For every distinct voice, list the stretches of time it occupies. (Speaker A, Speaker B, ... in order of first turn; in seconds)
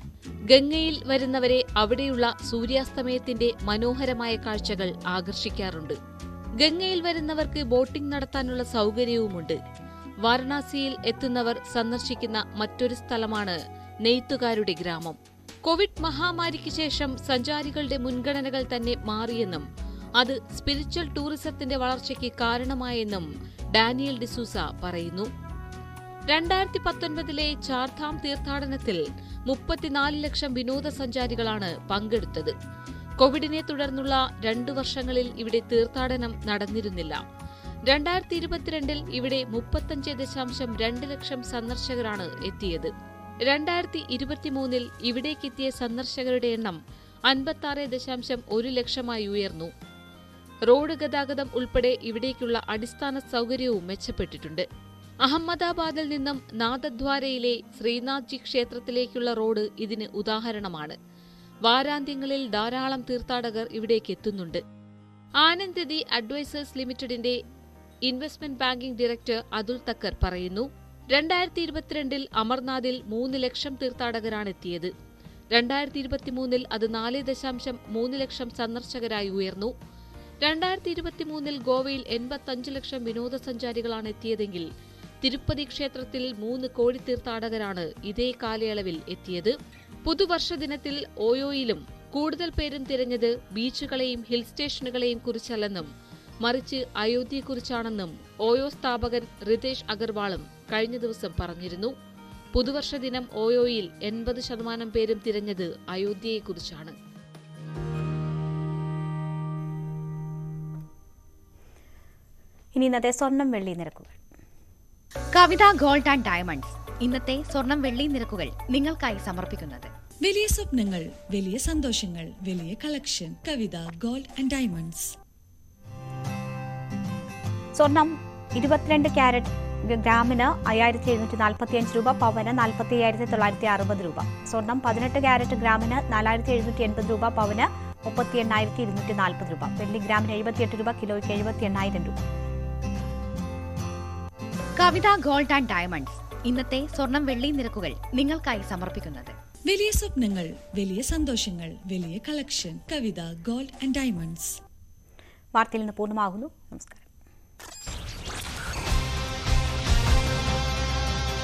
Speaker A: 0.5-6.0, 6.6-9.6, 10.2-19.6, 20.2-25.3, 26.3-32.5, 33.2-37.2, 37.9-42.9, 43.5-46.8, 47.3-49.7, 50.7-54.6, 55.2-61.0, 61.7-64.6, 65.4-67.4, 68.1-74.9, 75.5-79.7, 80.4-84.7, 85.2-89.5, 90.1-95.9, 96.4-101.9, 102.5-106.9
Speaker B: 112.7-114.1, 127.8-142.2, 155.5-157.0
Speaker C: 115.3-119.9, 144.8-149.3
Speaker D: 120.2-125.1, 149.7-154.6